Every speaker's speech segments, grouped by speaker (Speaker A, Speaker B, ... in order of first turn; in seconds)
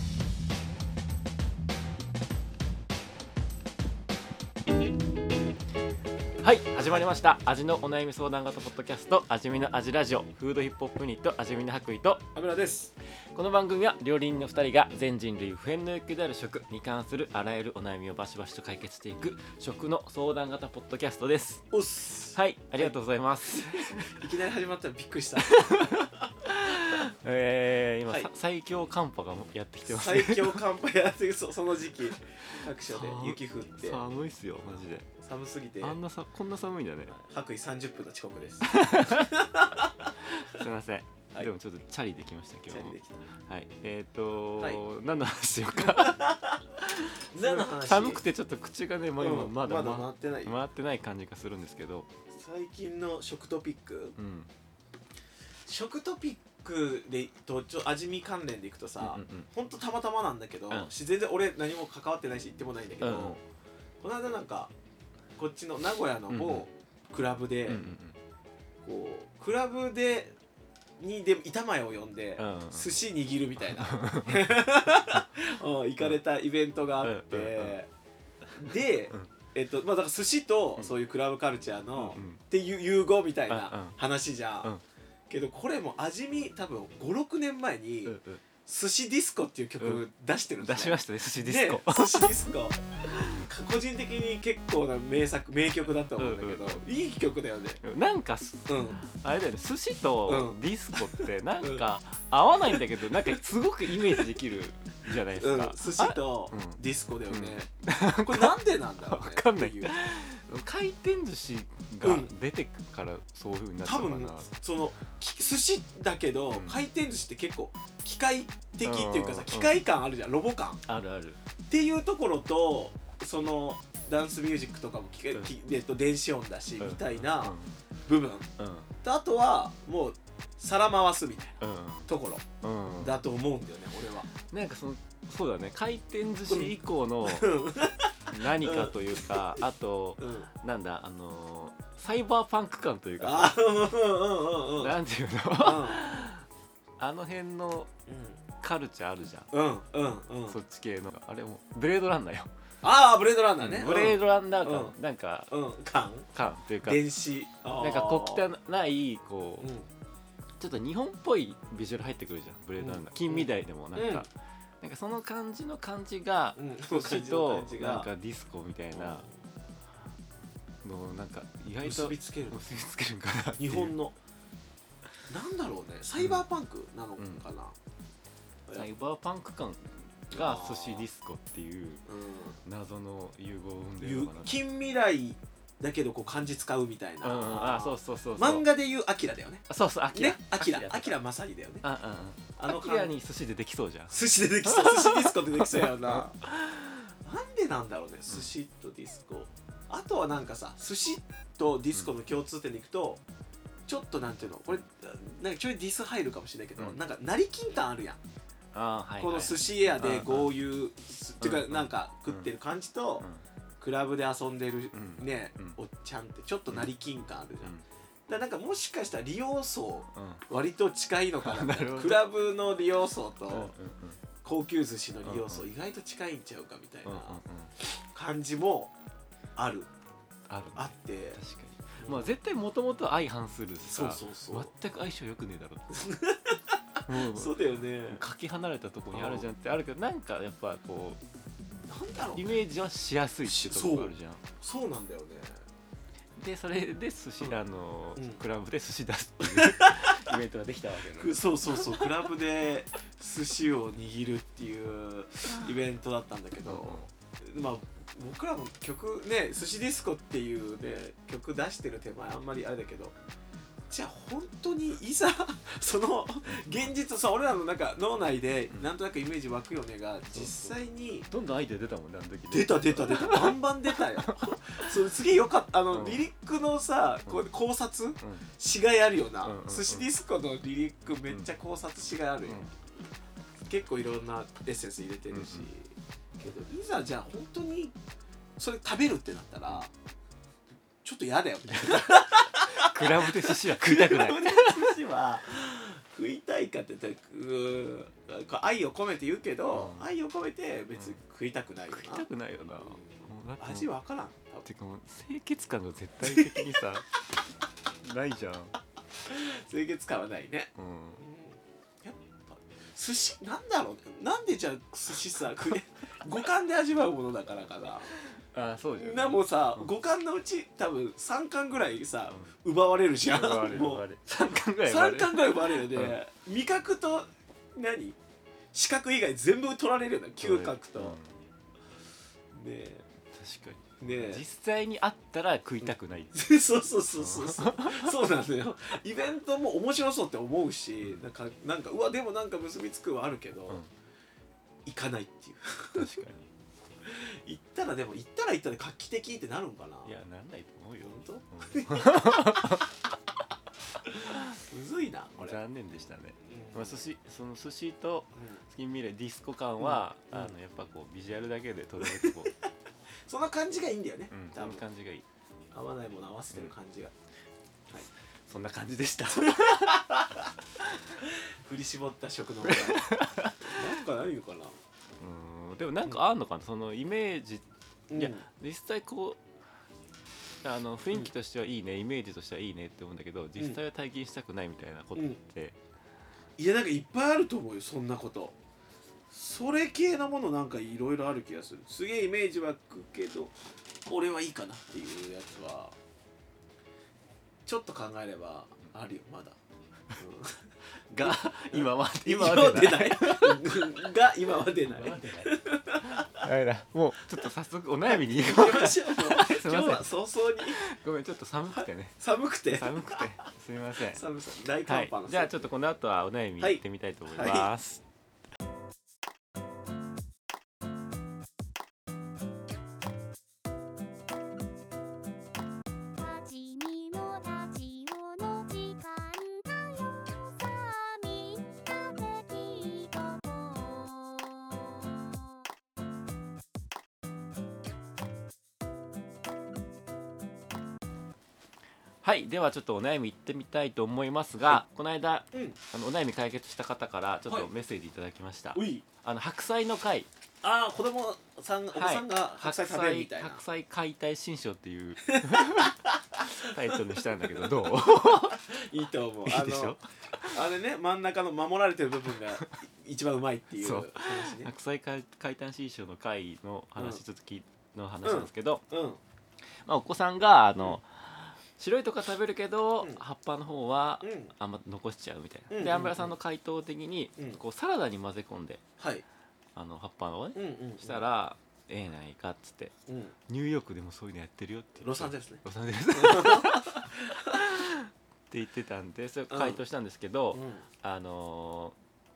Speaker A: 6.4-12.3, 13.3-21.7, 22.3-24.2, 25.4-30.6, 32.4-35.1, 35.8-37.2, 38.6-39.4, 40.1-52.1, 54.2-54.5, 59.0-59.5, 63.0-63.4, 66.3-66.7, 67.7-68.2, 72.4-72.9, 73.8-74.6, 77.0-77.8, 82.0-82.4, 83.5-84.0, 88.0-88.4, 90.6-92.4, 93.1-93.4, 96.2-96.8, 97.8-114.5, 116.5-116.8, 118.8-119.8, 120.9-121.4, 126.8-127.8, 128.6-128.9, 131.6-132.1, 132.6-133.2, 134.4-137.5, 138.3-143.6, 144.8-146.5, 147.0-147.9, 148.6-149.5, 150.5-152.5, 153.6-155.5, 156.3-157.0, 157.8-159.7, 160.6-164.3, 164.8-169.3, 170.8-173.9, 176.2-176.4, 177.2-177.4, 178.7-182.1, 182.6-184.6, 187.2-188.7, 189.7-191.2, 191.8-197.0, 208.7-210.5, 211.4-212.5, 214.9-215.8, 220.1-220.4, 221.4-222.2, 223.5-224.2, 225.2-225.7, 227.1-227.7, 230.5-235.9, 237.1-241.2, 242.3-244.4, 246.4-252.1, 256.7-257.1, 270.3-270.8, 271.3-274.9, 275.9-276.2, 278.2-278.5, 279.4-280.1, 285.3-285.7, 291.7-294.9, 299.7-300.1, 301.9-303.9, 304.6-307.1, 308.0-308.8, 310.8-311.2, 318.2-319.9, 323.3-326.2, 330.4-331.4, 333.3-336.4, 337.2-338.1, 345.9-346.5, 350.1-352.9, 354.2-354.6, 355.4-362.5, 364.3-365.3, 368.5-370.2, 370.8-371.2, 372.6-373.9, 375.2-379.4, 380.6-385.8, 401.1-403.8, 404.9-410.1, 410.6-412.2, 412.7-414.2, 414.9-418.0, 442.2-450.3, 451.9-458.6, 459.4-460.6, 463.8-468.8, 469.9-478.8, 479.8-482.9, 483.5-492.0
Speaker B: 12.3-12.9, 21.7-23.0, 23.6-26.2, 29.9-34.0, 35.1-36.0, 37.1-40.1, 42.7-43.3, 45.8-46.6, 47.3-48.3, 49.2-50.6, 52.3-54.2, 55.7-63.4, 64.0-64.7, 65.4-67.9, 68.8-70.4, 71.0-77.9, 78.5-84.7, 85.3-97.8, 98.7-99.0, 100.3-101.8, 102.7-103.4, 103.9-104.3, 105.4-107.7, 108.2-110.0, 112.0-112.3, 113.8-120.8, 121.7-128.5, 129.0-132.4, 133.0-134.3, 137.2-139.6, 140.2-140.5, 143.2-145.0, 145.6-146.0, 148.1-148.4, 149.5-150.6, 152.8-154.9, 155.5-156.3, 156.8-158.4, 159.6-159.9, 162.8-164.3, 166.6-168.1, 168.9-169.4, 171.8-172.6, 173.6-174.2, 175.3-177.8, 180.3-181.1, 182.1-182.6, 184.0-191.8, 192.6-193.1, 194.1-196.4, 197.2-203.2, 203.9-208.2, 209.2-213.3, 213.8-217.8, 218.3-223.7, 224.4-227.4, 228.1-228.9, 229.6-229.9, 230.8-231.4, 232.0-232.3, 233.8-234.7, 235.9-238.2, 239.1-239.5, 241.9-242.6, 243.5-245.6, 249.5-250.3, 251.1-263.1, 263.9-271.3, 272.5-282.7, 283.7-288.0, 288.6-289.9, 291.0-302.3, 302.8-304.6, 306.2-306.8, 309.2-318.1, 319.0-324.0, 324.9-328.2, 328.7-331.2, 332.5-333.1, 334.0-334.4, 335.8-343.8, 344.9-346.2, 347.0-350.1, 351.0-352.8, 354.1-355.6, 356.4-357.0, 358.4-358.6, 359.8-360.6, 362.0-362.5, 363.3-364.8, 365.7-367.1, 369.4-370.5, 371.2-374.8, 378.1-378.4, 386.6-388.6, 389.3-393.6, 394.1-396.0, 397.7-399.6, 400.2-406.5, 408.1-410.8, 411.8-413.3, 414.0-415.7, 416.6-417.7, 448.8-449.1, 450.6-453.6, 455.3-464.7, 467.0-467.2, 468.2-469.2, 474.2-474.5, 475.7-476.4, 479.0-479.2, 480.6-481.2, 483.1-483.4, 485.0-487.6, 489.5-489.8, 490.5-490.9
Speaker C: 426.2-434.8